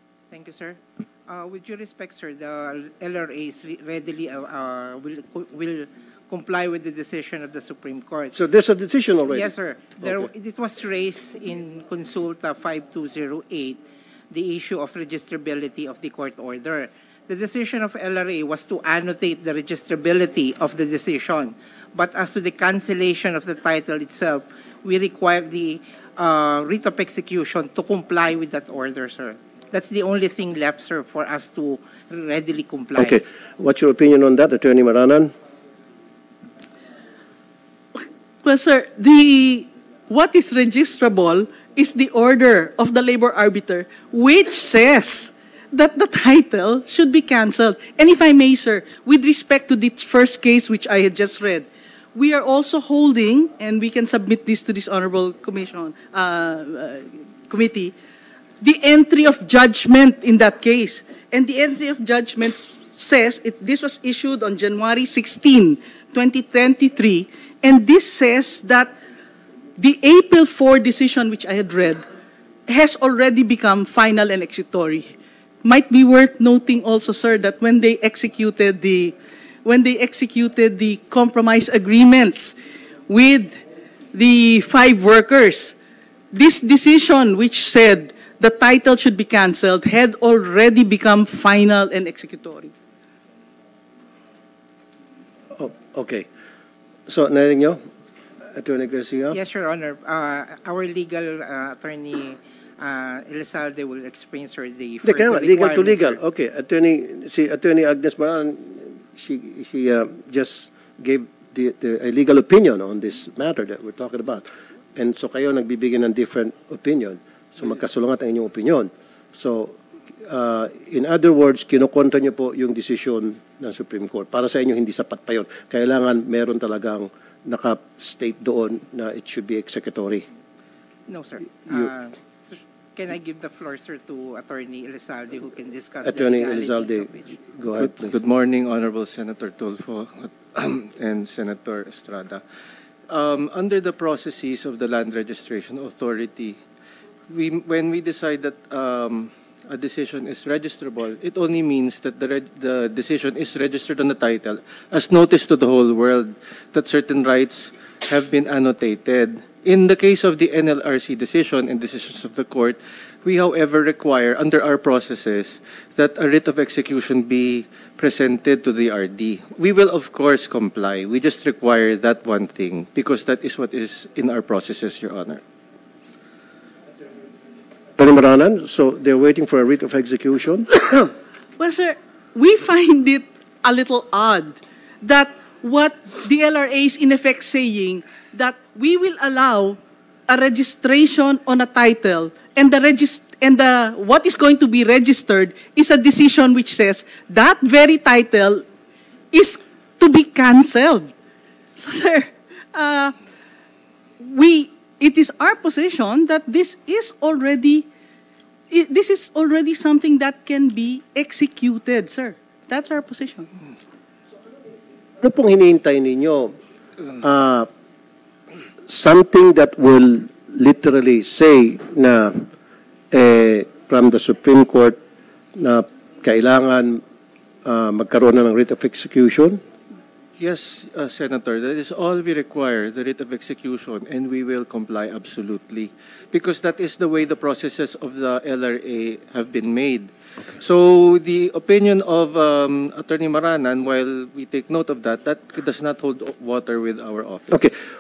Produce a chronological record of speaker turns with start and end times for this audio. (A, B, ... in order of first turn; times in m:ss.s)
0:00.3-0:08.4 A
0:08.3-0:10.3 B
0:09.3-0:33.2 A
0:33.0-0:35.3 B
0:38.4-0:58.0 C
0:58.6-1:08.9 C
1:09.8-1:12.0 C
1:12.7-1:22.6 C
1:23.1-1:25.8 C
1:26.3-1:32.7 C
1:35.6-1:36.3 B
1:37.1-1:37.8 B
1:38.5-1:39.4 B
1:39.3-1:46.2 A
1:45.0-2:10.2 B
2:11.1-2:17.4 A
2:16.0-2:18.2 B
2:17.8-2:22.4 D
2:23.1-2:26.6 D
2:27.3-2:55.4 D
2:58.0-3:00.7 B
3:01.6-3:18.6 C
3:19.3-3:21.1 C
3:21.8-3:23.1 C
3:24.2-3:27.9 C
3:28.7-3:33.5 C
3:35.2-3:36.6 B
3:37.2-3:37.7 B
3:38.9-3:42.5 B
3:43.1-3:45.0 B
3:45.6-3:47.0 B
3:47.6-3:49.6 B
3:50.4-4:07.6 D